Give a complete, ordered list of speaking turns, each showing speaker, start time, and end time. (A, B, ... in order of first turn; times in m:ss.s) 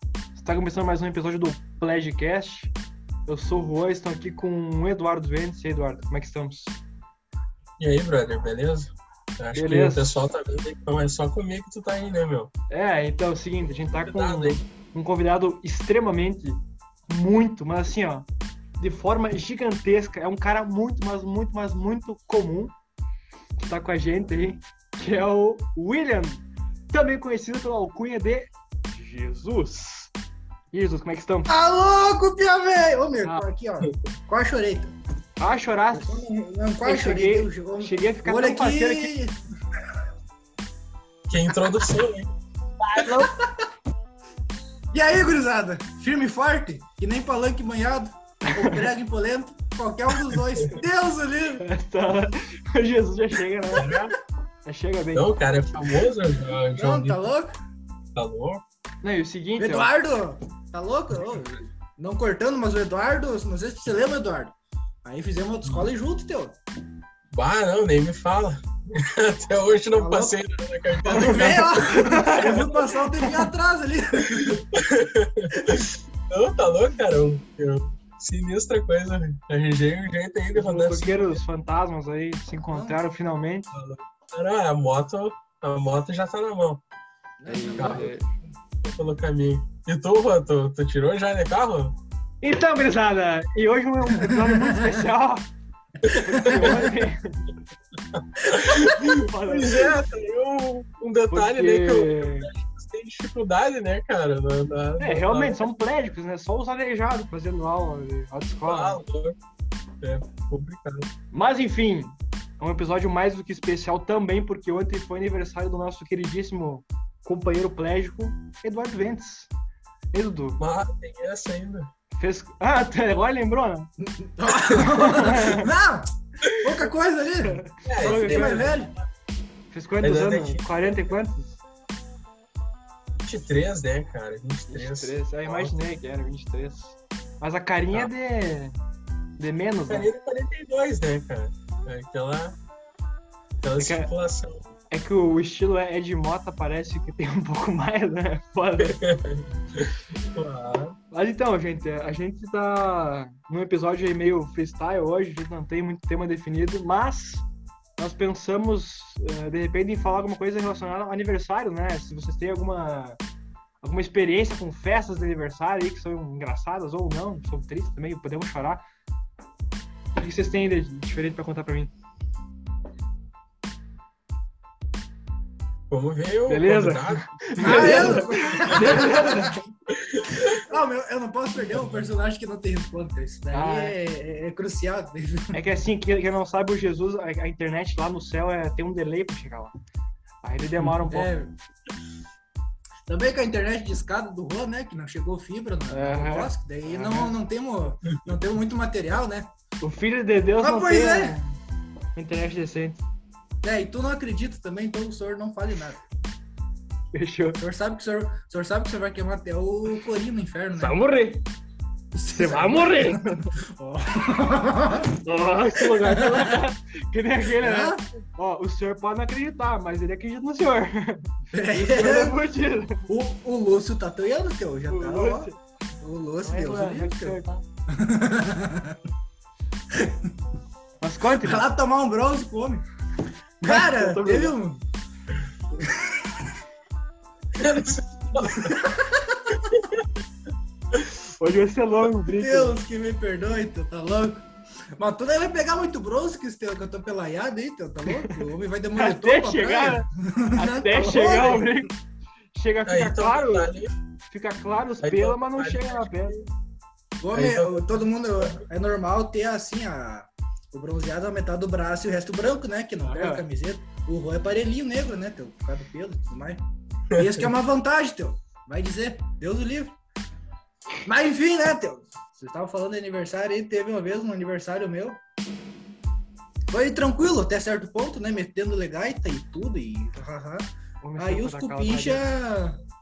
0:00.3-0:02.7 A
0:03.3-0:06.8 A
0:07.8-0:12.5 B
0:09.5-0:10.2 A
0:12.7-0:18.3 A
0:13.9-0:14.6 B
0:18.8-0:22.7 A
0:23.6-0:30.1 A
0:30.7-0:31.5 A
0:31.5-0:35.0 C
0:35.4-0:36.3 A
0:35.9-0:39.4 C
0:36.8-0:39.1 A
0:41.3-0:42.3 B
0:42.8-0:43.4 A
0:43.3-0:43.7 C
0:44.9-0:51.6 C
0:48.5-0:48.8 A
0:51.6-0:54.1 A
0:53.7-0:54.1 B
0:54.6-0:55.3 A
0:55.1-0:57.2 B
0:56.7-0:57.5 C
0:58.1-0:58.6 B
0:59.0-0:59.9 A
0:59.6-1:04.5 C
1:05.0-1:06.6 C
1:07.3-1:12.8 B
1:09.9-1:10.4 C
1:11.1-1:12.6 A
1:11.1-1:14.6 C
1:14.2-1:21.4 B
1:20.5-1:23.7 A
1:23.7-1:26.8 B
1:27.4-1:28.2 C
1:27.5-1:28.2 A
1:27.8-1:28.0 B
1:28.8-1:32.0 B
1:32.4-1:35.5 A
1:34.2-1:35.0 C
1:36.0-1:37.4 A
1:36.1-1:36.7 B
1:36.4-1:36.9 C
1:38.1-1:45.6 B
1:38.9-1:39.9 A
1:41.3-1:42.5 A
1:45.0-1:49.0 A
1:48.7-1:49.4 B
1:50.0-1:51.1 B
1:51.3-1:59.5 A
2:00.1-2:00.6 A
2:00.6-2:01.9 B
2:02.2-2:03.9 A
2:04.0-2:08.9 C
2:04.5-2:05.7 A
2:07.4-2:08.8 A
2:07.8-2:08.9 B
2:09.7-2:11.6 A
2:10.0-2:11.0 B
2:13.2-2:15.8 B
2:14.7-2:18.8 A
2:19.4-2:20.1 A
2:19.9-2:22.6 B
2:23.6-2:24.6 B
2:23.8-2:24.1 A
2:24.9-2:29.0 A
2:28.8-2:31.0 B
2:31.1-2:37.4 A
2:38.0-2:43.2 A
2:43.8-2:48.8 A
2:50.2-2:51.9 A
2:55.9-2:58.2 B
2:56.5-2:59.6 A
2:57.6-2:59.7 C
2:59.9-3:00.6 B
3:00.4-3:05.6 C
3:03.5-3:03.9 A
3:05.5-3:09.7 A
3:10.4-3:11.3 A
3:11.0-3:11.5 C
3:13.1-3:19.5 C
3:15.9-3:17.4 A
3:19.8-3:21.5 A
3:20.6-3:21.4 C
3:22.1-3:23.0 A
3:23.6-3:26.0 C
3:27.1-3:27.6 A
3:27.6-3:31.0 C
3:30.7-3:31.4 A
3:32.1-3:35.1 C
3:32.2-3:33.5 A
3:35.2-3:43.0 A
3:35.8-3:36.6 C
3:37.5-3:38.0 C
3:41.5-3:42.4 C
3:43.1-3:49.0 C
3:44.9-3:45.6 A
3:46.4-3:47.6 A
3:49.9-3:50.3 C
3:51.0-3:51.7 A
3:51.4-3:52.8 C
3:53.6-3:54.8 C
3:53.6-3:54.6 A
3:55.8-3:56.6 C
3:57.5-3:58.8 B
3:58.4-3:59.6 C
3:59.6-4:00.0 B
4:01.4-4:02.8 A
4:02.3-4:04.4 C
4:05.0-4:11.7 C
4:08.1-4:08.4 A
4:09.0-4:11.9 A
4:12.5-4:13.7 A
4:12.9-4:13.9 B
4:14.3-4:16.4 A
4:15.0-4:16.4 B
4:17.2-4:26.6 C
4:17.3-4:17.9 B
4:23.0-4:23.4 A
4:27.1-4:30.0 C
4:31.0-4:35.2 C
4:36.7-4:42.8 C
4:41.0-4:42.3 A